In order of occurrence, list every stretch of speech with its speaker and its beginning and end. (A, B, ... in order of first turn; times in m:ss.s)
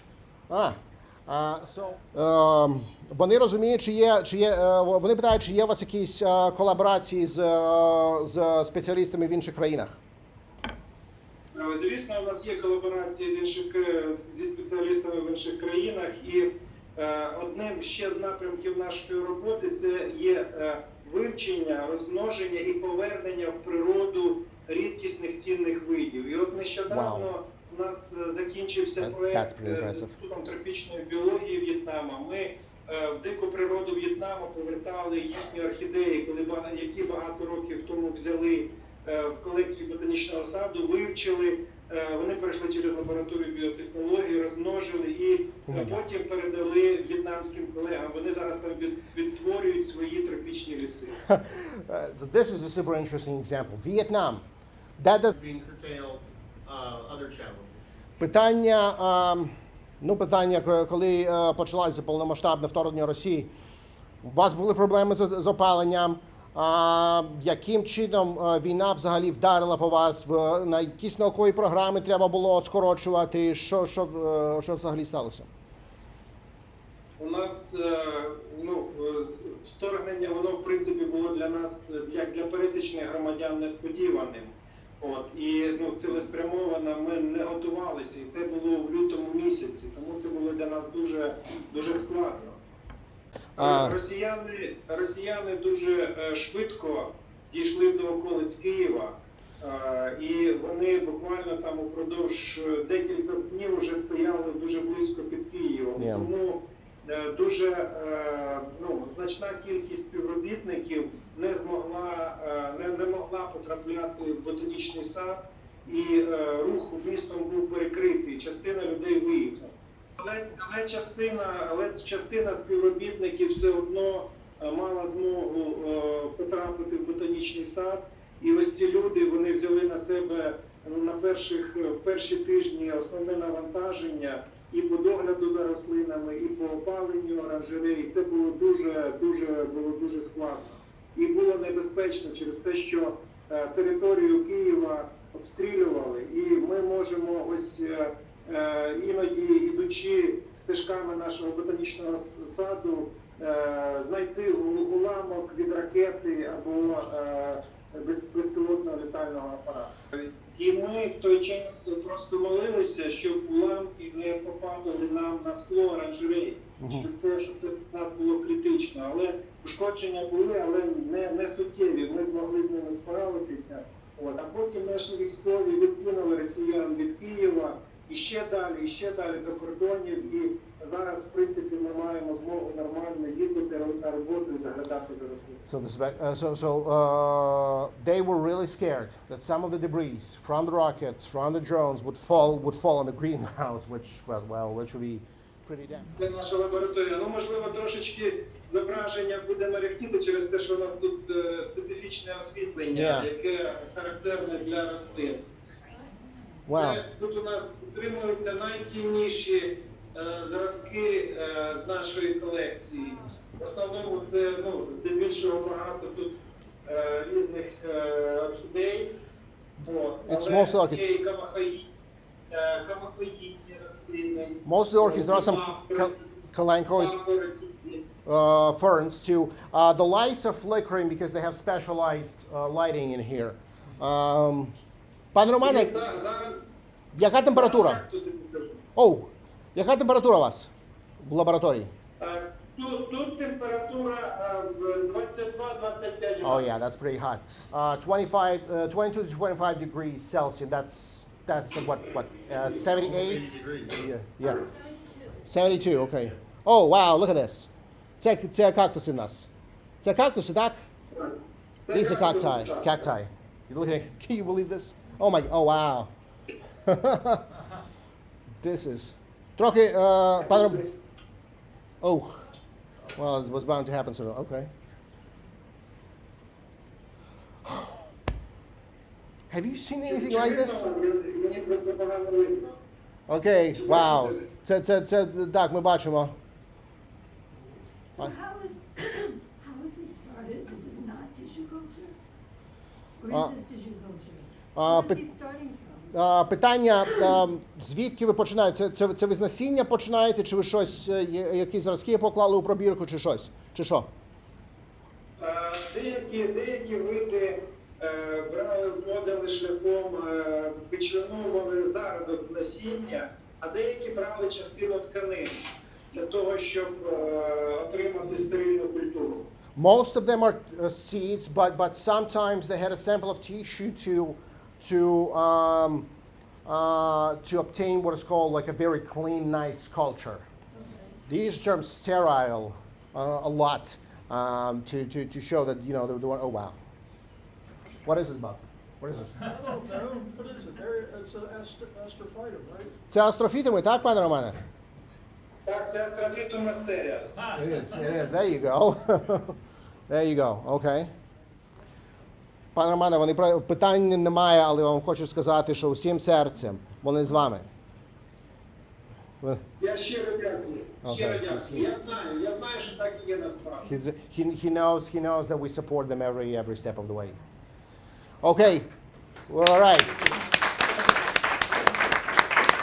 0:00.5-0:10.0 A
0:11.6-0:51.2 B
0:26.9-0:27.3 A
0:29.0-0:30.1 A
0:45.7-0:46.0 A
0:51.3-0:54.4 A
0:55.0-0:55.4 A
0:55.3-0:57.8 C
0:58.2-1:03.5 A
1:04.2-1:15.5 A
1:17.2-1:32.6 B
1:33.6-1:34.0 A
1:33.6-3:05.6 B
1:46.0-1:46.3 A
2:46.8-2:47.1 A
3:05.7-3:16.1 A
3:16.2-3:25.4 B
3:22.9-3:23.3 A
3:26.2-3:26.4 D
3:26.7-3:27.0 A
3:26.7-3:39.2 B
3:39.8-3:41.9 B
3:40.2-3:41.0 A
3:42.5-3:46.2 B
3:44.6-3:47.2 A
3:46.9-3:48.1 B
3:48.3-3:54.8 A
3:55.3-3:56.0 A
3:55.6-3:56.8 B
3:57.1-3:58.0 A
3:57.5-3:58.8 B
3:59.0-4:00.7 A
4:01.2-4:01.9 A
4:02.2-4:06.8 B
4:06.4-4:14.7 A
4:13.0-4:14.0 C
4:14.8-4:15.3 D
4:15.5-4:17.7 A
4:18.2-4:19.5 A
4:20.0-4:20.8 A
4:21.1-4:23.1 B
4:21.9-4:26.1 A
4:26.9-4:27.5 A
4:28.6-4:30.8 A
4:30.4-4:30.9 B
4:32.0-4:32.4 A
4:33.2-4:34.7 A
4:39.5-4:40.9 A
4:40.1-4:42.8 B
4:43.3-4:46.4 A
4:43.8-4:44.4 B
4:48.2-4:52.2 D
4:53.2-4:56.1 D
4:54.8-4:55.2 A
4:56.1-5:04.1 A
5:05.4-5:15.6 B
5:16.1-5:19.5 B
5:19.8-5:26.1 A
5:26.6-5:30.5 A
5:30.8-5:31.1 D
5:31.3-5:36.8 A
5:38.0-5:39.5 A
5:39.4-5:42.9 E
5:43.1-5:44.6 A
5:45.6-5:47.5 B
5:47.5-5:49.6 A
5:50.1-5:51.1 A
5:52.8-5:57.7 A
5:59.8-6:03.8 B
6:01.0-6:02.0 A
6:03.8-6:07.4 A
6:08.4-6:08.9 A
6:09.5-6:10.4 A